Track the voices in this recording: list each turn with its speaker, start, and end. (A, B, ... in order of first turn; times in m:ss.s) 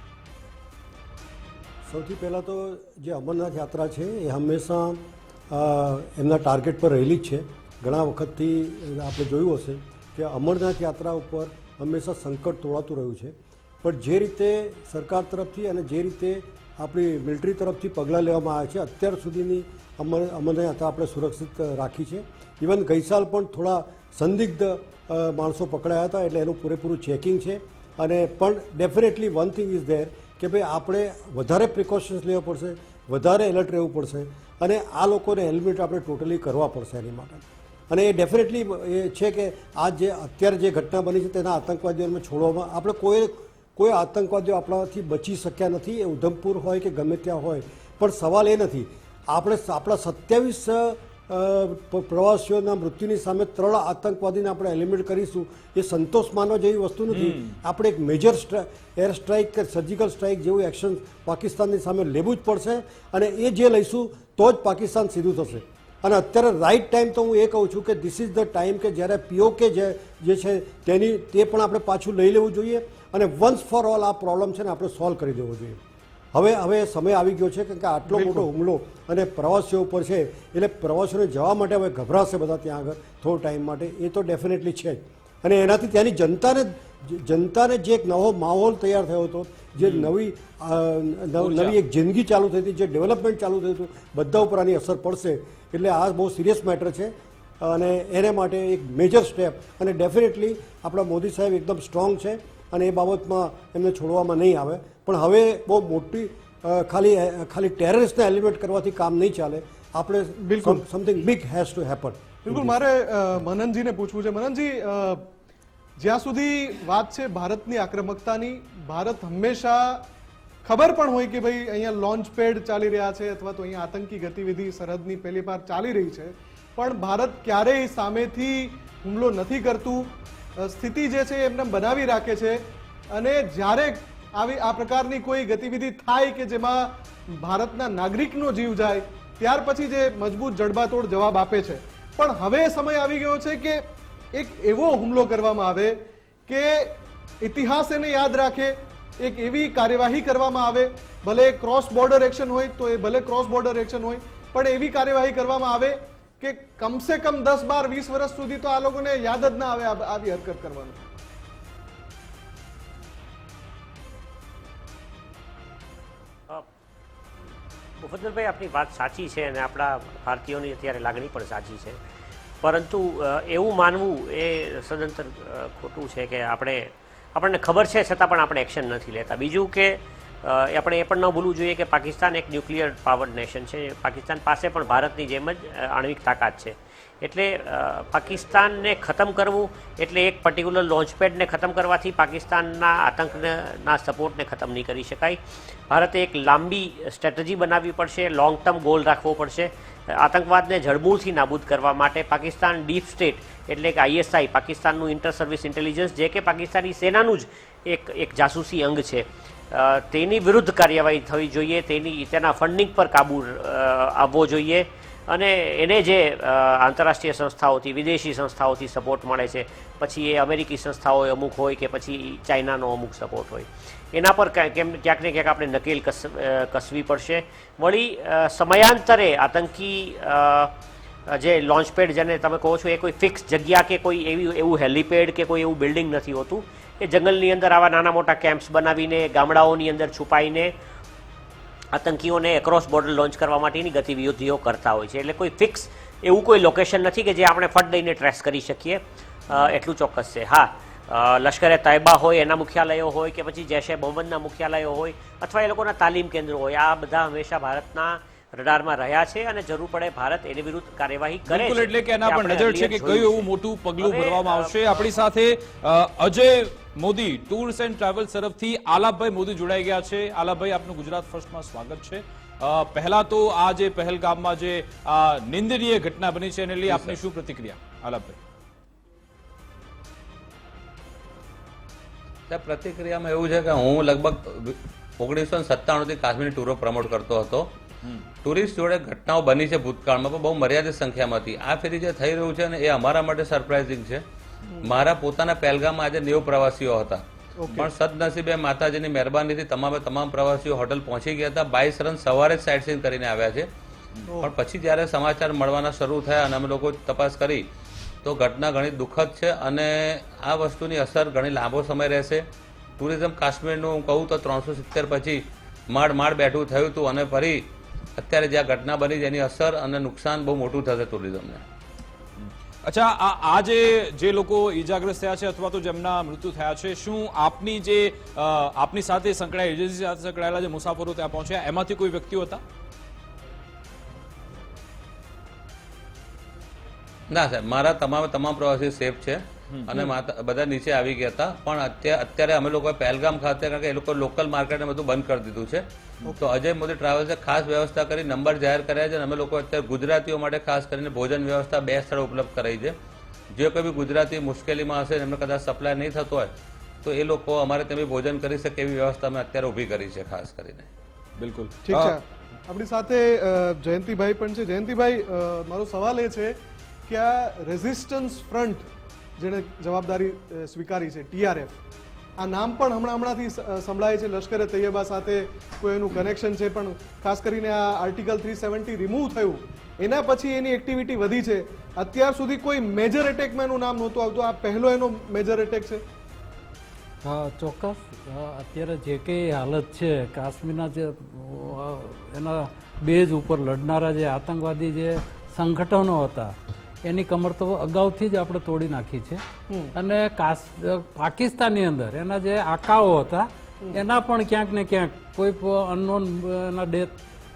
0:01.8-1:15.8 A
0:57.1-0:57.6 B
1:16.3-1:52.8 A
1:18.1-1:18.4 C
1:29.8-1:30.1 B
1:31.4-1:31.8 B
1:50.4-1:50.8 C
1:52.5-1:55.3 C
1:56.0-2:00.0 C
2:00.6-2:41.0 C
2:48.0-2:52.0 D
2:52.6-3:50.7 D
3:51.3-4:00.7 D
4:01.9-4:25.2 D
4:21.5-4:38.4 B
4:36.9-4:37.2 E
4:42.5-4:47.7 E
4:48.4-4:54.2 E
4:54.8-4:57.2 E
4:57.6-4:57.9 C
4:57.7-5:03.7 E
5:04.3-5:04.5 C
5:04.4-5:07.7 E
5:08.2-5:12.5 E
5:13.0-5:21.6 E
5:22.4-5:32.6 B
5:37.3-5:53.0 E
5:53.5-6:00.9 E
6:01.4-6:02.2 B
6:01.8-6:06.6 C
6:07.1-6:08.9 C
6:09.4-6:11.8 C
6:12.4-6:26.0 C
6:27.2-6:39.4 F
6:39.7-6:39.9 C
6:39.9-6:47.1 F